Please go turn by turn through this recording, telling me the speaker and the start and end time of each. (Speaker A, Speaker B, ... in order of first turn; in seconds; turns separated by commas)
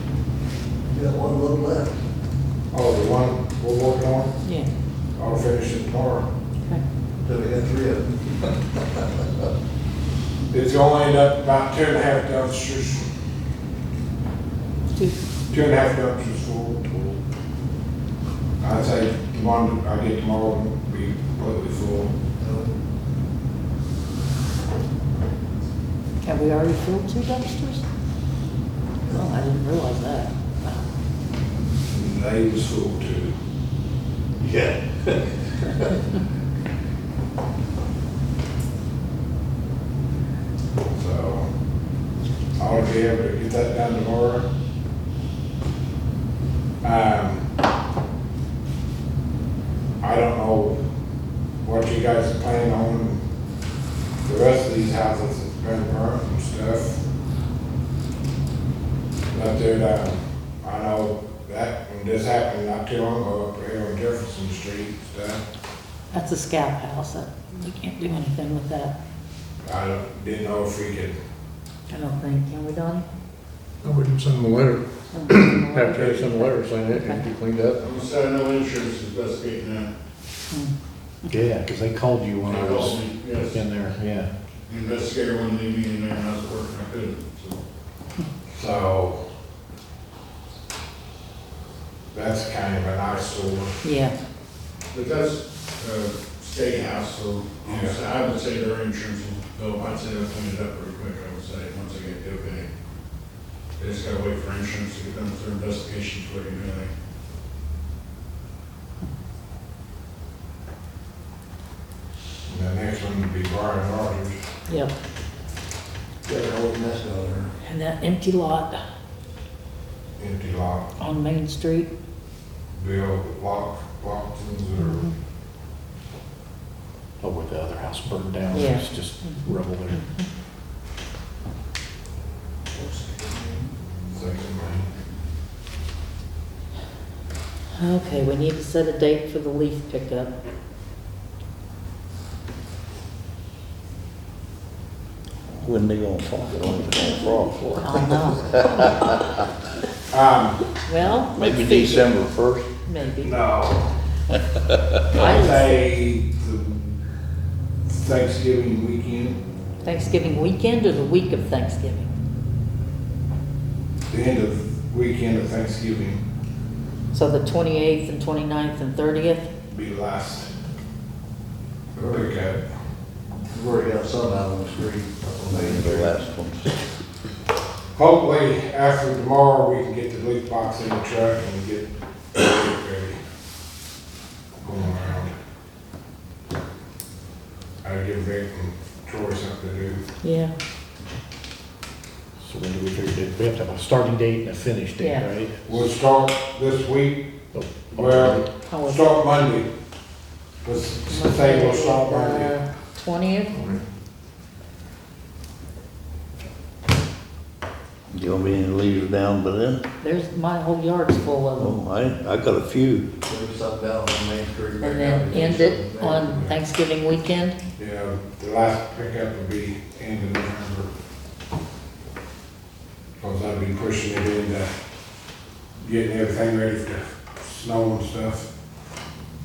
Speaker A: 0.9-2.0, Speaker B: 2.7-4.3, Speaker B: 5.2-6.3, Speaker A: 7.2-8.6, Speaker B: 10.5-13.0, Speaker B: 15.5-17.2, Speaker B: 18.6-22.1, Speaker A: 22.4-22.7, Speaker C: 26.2-27.8, Speaker C: 29.1-30.8, Speaker B: 31.9-33.3, Speaker A: 34.4-35.8, Speaker B: 40.9-41.5, Speaker B: 42.5-44.5, Speaker B: 46.8-47.5, Speaker B: 50.0-50.8, Speaker B: 51.6-53.2, Speaker B: 54.2-57.0, Speaker B: 59.3-65.4, Speaker C: 66.1-69.0, Speaker B: 69.6-71.2, Speaker C: 71.9-73.0, Speaker D: 73.8-77.8, Speaker C: 75.1-77.2, Speaker B: 75.9-76.3, Speaker E: 77.8-79.9, Speaker F: 81.3-84.3, Speaker E: 82.5-83.6, Speaker E: 84.7-87.6, Speaker B: 88.5-89.2, Speaker B: 92.1-93.8, Speaker C: 93.8-94.2, Speaker E: 94.9-102.7, Speaker B: 97.6-98.0, Speaker E: 103.8-106.9, Speaker B: 112.5-114.4, Speaker C: 114.7-114.9, Speaker A: 116.2-117.5, Speaker C: 117.6-118.8, Speaker B: 120.2-120.8, Speaker C: 121.0-121.9, Speaker B: 122.7-125.1, Speaker C: 124.8-125.1, Speaker F: 127.2-130.0, Speaker C: 128.5-130.3, Speaker A: 132.7-133.7, Speaker B: 134.1-134.9, Speaker C: 137.8-140.3, Speaker G: 145.6-149.4, Speaker C: 147.7-148.8, Speaker B: 150.1-150.6, Speaker C: 150.8-152.2, Speaker G: 151.3-152.7, Speaker C: 152.8-153.4, Speaker B: 153.2-153.9, Speaker G: 154.6-155.2, Speaker C: 155.1-155.8, Speaker B: 155.2-157.0, Speaker B: 157.9-159.4, Speaker C: 159.8-162.1, Speaker B: 164.1-166.2, Speaker C: 167.1-169.5, Speaker B: 169.7-170.5, Speaker A: 171.9-172.3, Speaker B: 172.0-172.6, Speaker A: 173.5-176.1, Speaker G: 175.5-176.8, Speaker B: 177.9-183.2, Speaker B: 184.6-185.3, Speaker B: 187.8-190.0, Speaker C: 190.2-190.5, Speaker F: 192.4-195.7, Speaker C: 195.0-195.3, Speaker B: 195.7-197.3, Speaker F: 197.5-198.4, Speaker B: 197.9-199.7, Speaker C: 198.7-199.1, Speaker B: 200.6-202.5, Speaker C: 201.1-203.6, Speaker G: 208.1-209.8, Speaker C: 210.0-211.8, Speaker G: 211.6-213.1, Speaker A: 213.2-216.4, Speaker C: 214.8-217.6, Speaker B: 217.8-220.9, Speaker B: 223.2-224.7, Speaker B: 225.8-228.5